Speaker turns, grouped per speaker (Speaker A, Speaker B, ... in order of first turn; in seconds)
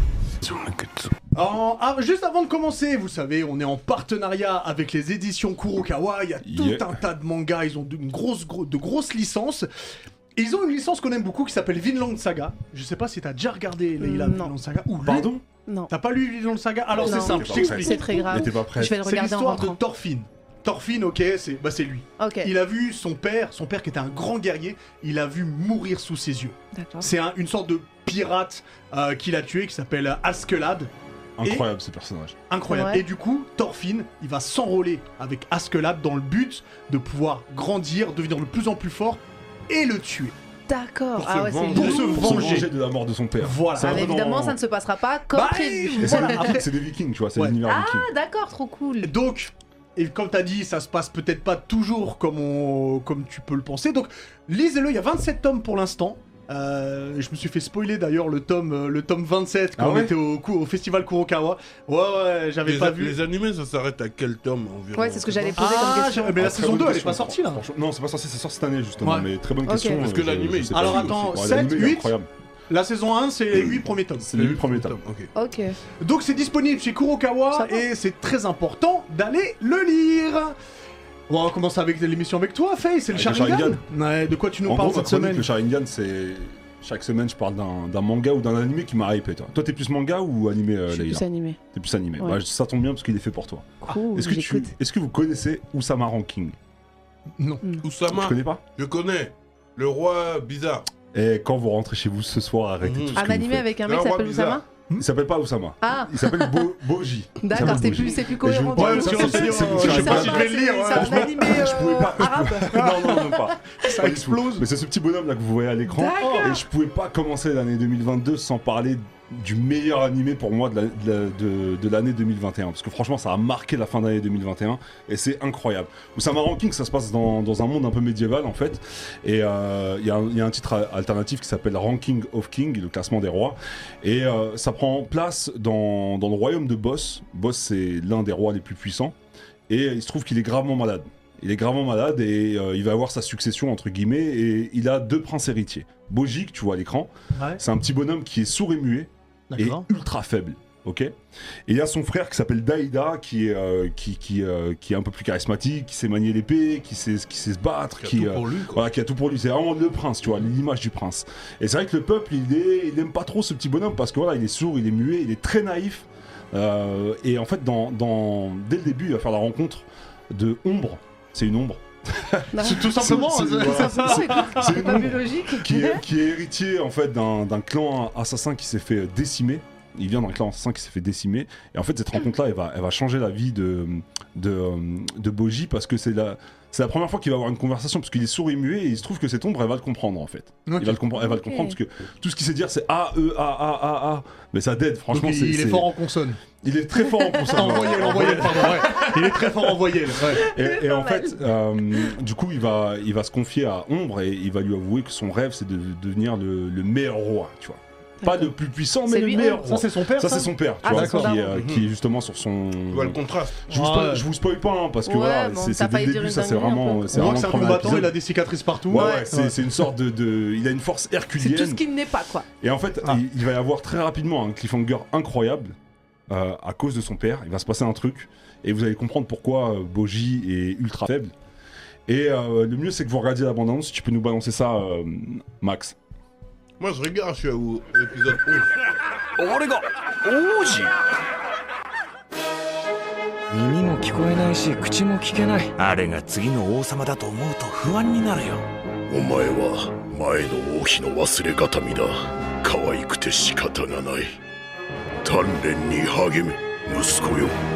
Speaker A: 0.5-1.1, 41.2-42.7, 62.6-65.9, 70.0-71.3, 74.3-75.3, 97.8-100.9, 102.8-103.2, 103.8-104.6, 158.0-158.8, 211.5-211.8, 212.9-213.6, 236.8-238.7
Speaker B: 1.3-9.7, 10.3-15.3, 15.9-30.9, 32.5-40.3, 41.7-42.7, 43.4-44.1, 45.3-46.7, 49.0-63.1, 65.6-67.6, 69.0-69.3, 70.7-72.1, 72.7-74.3, 76.0-80.5, 81.3-85.5, 97.4-97.6, 108.7-111.8, 112.7-113.2, 113.8-114.6, 116.1-116.5, 147.3-147.6, 149.5-149.8, 172.6-175.1, 190.7-191.0, 195.1-196.4, 197.5-200.4, 209.6-211.3, 213.7-214.2, 217.1-219.8
Speaker C: 6.4-7.0, 15.0-15.4, 16.9-19.0, 31.4-32.4, 41.8-44.6, 46.0-48.1, 59.8-60.1, 66.3-72.3, 73.5-75.0, 83.1-83.8, 84.6-96.5, 98.1-98.6, 101.1-103.7, 105.0-139.1, 139.7-151.1, 151.7-195.9, 196.6-199.1, 200.4-213.2, 213.7-218.2, 218.9-221.8, 222.6-225.7, 226.3-231.3, 232.1-235.9
Speaker D: 14.0-14.5, 17.0-19.8, 22.2-22.5, 26.7-27.1, 32.7-33.0, 40.7-42.2, 43.8-46.5, 47.7-49.1, 64.9-66.4, 69.7-70.0, 75.3-75.8, 77.5-77.8, 90.9-91.6, 93.8-94.7, 103.1-104.6, 105.8-106.7, 107.4-113.4, 115.9-116.6, 172.5-176.0, 191.2-191.8, 197.3-199.1, 200.4-201.4, 208.2-208.5, 209.1-209.7, 210.8-211.6, 215.1-218.0, 218.9-219.3, 221.4-222.4
Speaker E: 239.4-240.9, 245.8-248.6
Speaker F: 243.5-245.7
Speaker G: 249.1-254.4, 255.2-257.6